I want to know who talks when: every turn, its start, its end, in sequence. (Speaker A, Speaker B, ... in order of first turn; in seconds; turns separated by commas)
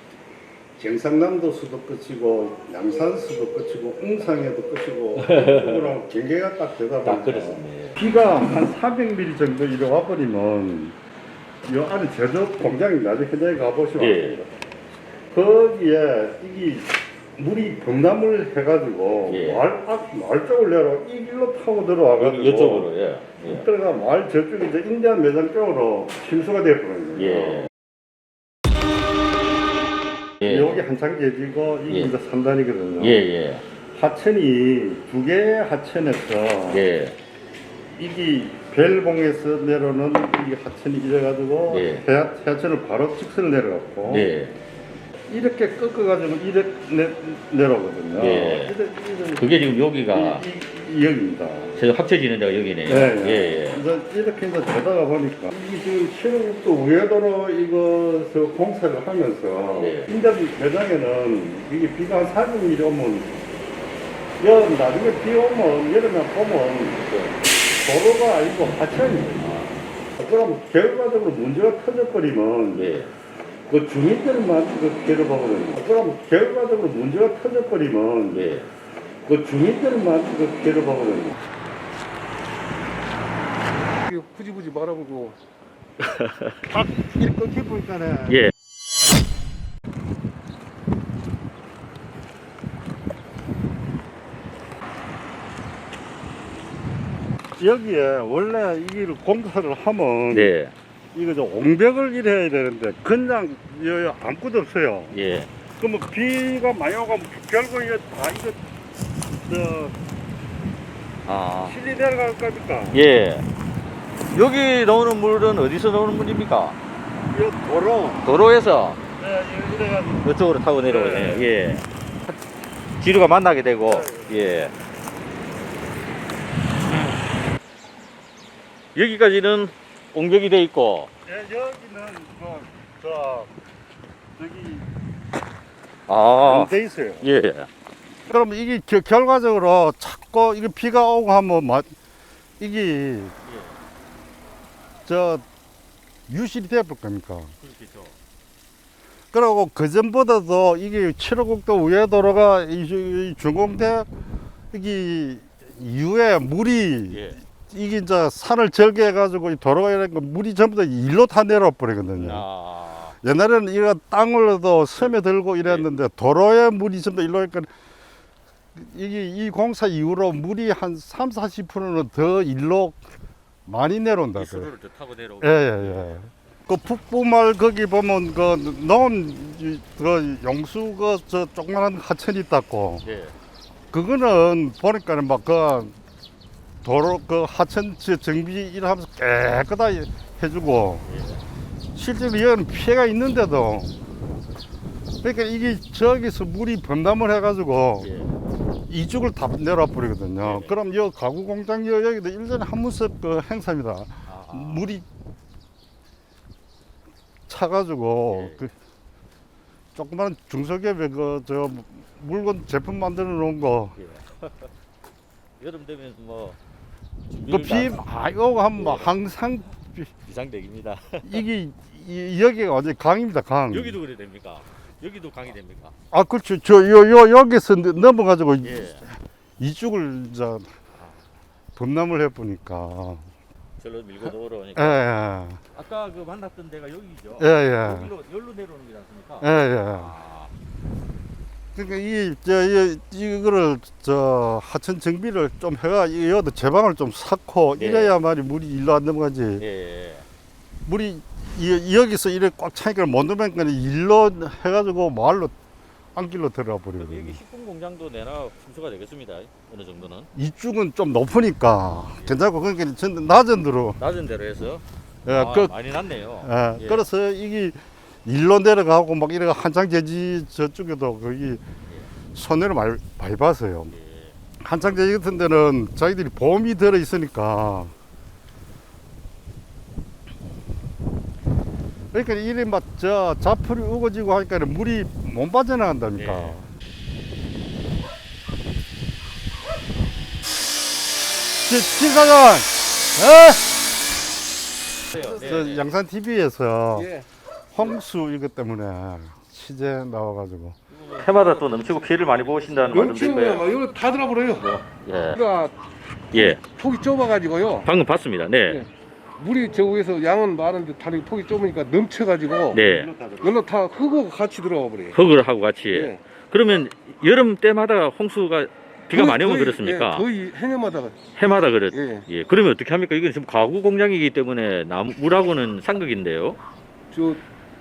Speaker A: 0.8-11.0, Speaker B: 5.2-6.0, Speaker B: 7.0-8.0, Speaker A: 11.7-14.4, Speaker B: 14.0-14.4, Speaker A: 15.3-22.9, Speaker B: 19.3-19.6, Speaker B: 22.2-23.7, Speaker A: 23.4-27.7, Speaker B: 27.2-27.7, Speaker B: 30.4-30.8, Speaker A: 30.4-33.2, Speaker B: 31.9-32.1, Speaker B: 33.0-33.6, Speaker A: 33.9-36.9, Speaker B: 36.7-37.2, Speaker A: 38.0-44.3, Speaker B: 41.7-42.0, Speaker B: 44.1-44.5, Speaker A: 45.3-49.6, Speaker B: 48.2-48.7, Speaker B: 49.4-50.5, Speaker A: 50.1-51.7, Speaker B: 51.7-53.8, Speaker A: 52.9-63.3, Speaker B: 59.7-60.1, Speaker A: 64.4-67.0, Speaker B: 67.0-67.4, Speaker A: 67.8-69.6, Speaker B: 69.4-69.8, Speaker A: 70.2-72.9, Speaker B: 72.7-73.1, Speaker A: 73.7-78.5, Speaker B: 78.3-78.7, Speaker A: 79.2-81.4, Speaker C: 84.0-85.4, Speaker B: 86.0-86.5, Speaker A: 86.6-88.5, Speaker A: 97.6-100.5, Speaker B: 100.3-100.7, Speaker A: 101.1-105.2, Speaker B: 105.1-105.5, Speaker A: 105.8-108.6, Speaker A: 109.5-110.0, Speaker B: 111.2-111.8, Speaker A: 111.6-113.0, Speaker B: 112.9-113.4, Speaker B: 114.3-116.8, Speaker A: 117.3-118.3, Speaker B: 118.2-119.0, Speaker A: 119.2-121.5, Speaker B: 120.2-121.8, Speaker B: 123.0-124.7, Speaker A: 123.9-124.3, Speaker B: 128.9-131.1, Speaker A: 131.2-133.5, Speaker A: 134.4-134.8, Speaker B: 136.1-137.7, Speaker A: 136.4-137.3, Speaker A: 138.3-141.9, Speaker A: 142.6-143.3, Speaker B: 143.4-143.8, Speaker A: 145.1-145.4, Speaker A: 146.3-147.5, Speaker B: 147.6-148.2, Speaker A: 149.3-154.1, Speaker A: 154.7-162.4, Speaker B: 157.1-157.4, Speaker B: 162.2-163.2, Speaker A: 163.2-167.7, Speaker A: 168.7-173.0, Speaker A: 173.7-174.7, Speaker B: 174.3-176.2, Speaker A: 175.4-183.1, Speaker B: 183.0-183.3, Speaker A: 183.9-185.9, Speaker A: 186.8-191.1, Speaker B: 191.0-191.4, Speaker A: 191.9-194.0, Speaker A: 195.2-198.1, Speaker B: 198.0-198.3, Speaker A: 198.9-205.0, Speaker B: 200.4-200.7, Speaker B: 204.2-204.9, Speaker A: 207.5-208.7, Speaker B: 208.3-208.6, Speaker A: 209.9-214.0, Speaker B: 213.9-214.7, Speaker B: 215.6-216.6, Speaker B: 217.3-218.0, Speaker A: 217.5-220.1, Speaker B: 218.7-219.2, Speaker B: 220.2-221.4, Speaker A: 221.2-224.0, Speaker B: 223.7-225.9, Speaker A: 226.1-230.7, Speaker B: 228.6-229.1, Speaker A: 231.8-233.3, Speaker B: 233.8-235.0, Speaker A: 234.8-235.6, Speaker B: 235.7-240.5, Speaker A: 237.4-238.1, Speaker A: 239.4-240.1, Speaker A: 241.7-249.6, Speaker B: 247.8-248.2, Speaker B: 249.6-250.2, Speaker A: 250.8-255.5, Speaker A: 256.1-257.4, Speaker B: 257.0-260.3, Speaker A: 260.3-264.0, Speaker B: 264.0-267.1, Speaker A: 265.2-265.8, Speaker A: 266.4-271.6, Speaker A: 272.3-273.9, Speaker B: 273.9-274.4, Speaker A: 274.6-277.9, Speaker A: 282.1-286.7, Speaker B: 286.1-286.6, Speaker A: 291.6-293.8, Speaker B: 295.1-295.8, Speaker A: 295.1-297.1, Speaker C: 295.2-295.5, Speaker C: 296.9-297.2, Speaker A: 297.7-300.8, Speaker C: 300.9-302.3, Speaker B: 301.1-303.7, Speaker C: 302.9-304.7, Speaker B: 304.6-305.4, Speaker C: 305.3-305.8, Speaker B: 306.3-306.6, Speaker C: 306.3-307.9, Speaker B: 307.8-308.8, Speaker C: 308.7-312.8, Speaker B: 312.7-313.1, Speaker A: 312.7-313.6, Speaker C: 313.4-315.2, Speaker B: 315.1-320.2, Speaker C: 315.9-316.2, Speaker C: 319.1-321.2, Speaker B: 321.4-326.6, Speaker C: 321.9-322.2, Speaker C: 327.1-327.4